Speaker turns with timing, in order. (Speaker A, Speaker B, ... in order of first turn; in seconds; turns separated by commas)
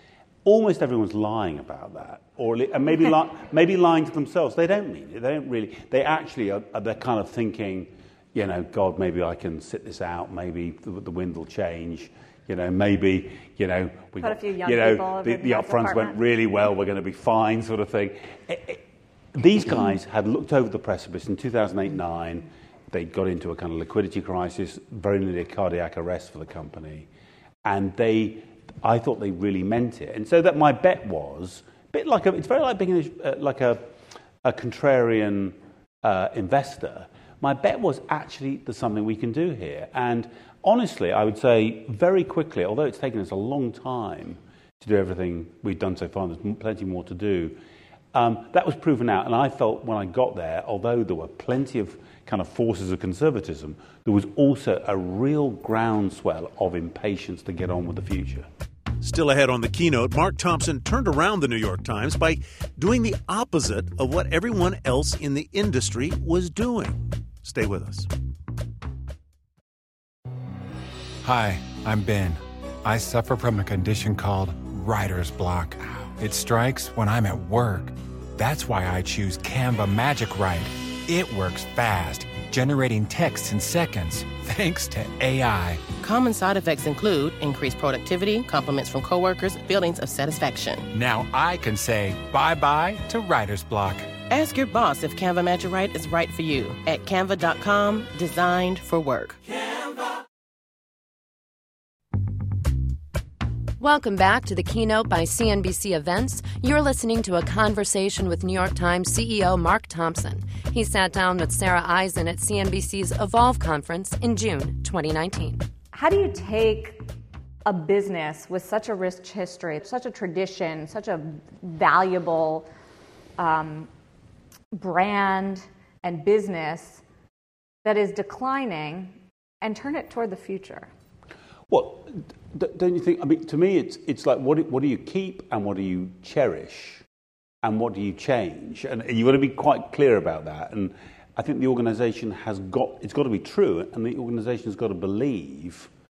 Speaker A: 0.5-18.8, Speaker B: 14.2-16.2, Speaker A: 19.4-27.1, Speaker A: 27.6-47.6, Speaker A: 48.1-58.5, Speaker C: 59.0-68.1, Speaker D: 71.2-85.8, Speaker E: 86.0-90.9, Speaker D: 90.9-94.1, Speaker E: 94.3-99.4, Speaker F: 103.8-115.7, Speaker B: 115.9-117.1, Speaker B: 117.7-122.7, Speaker B: 123.4-123.9, Speaker B: 124.7-127.0, Speaker B: 127.8-130.9, Speaker A: 131.7-137.0, Speaker A: 137.6-145.9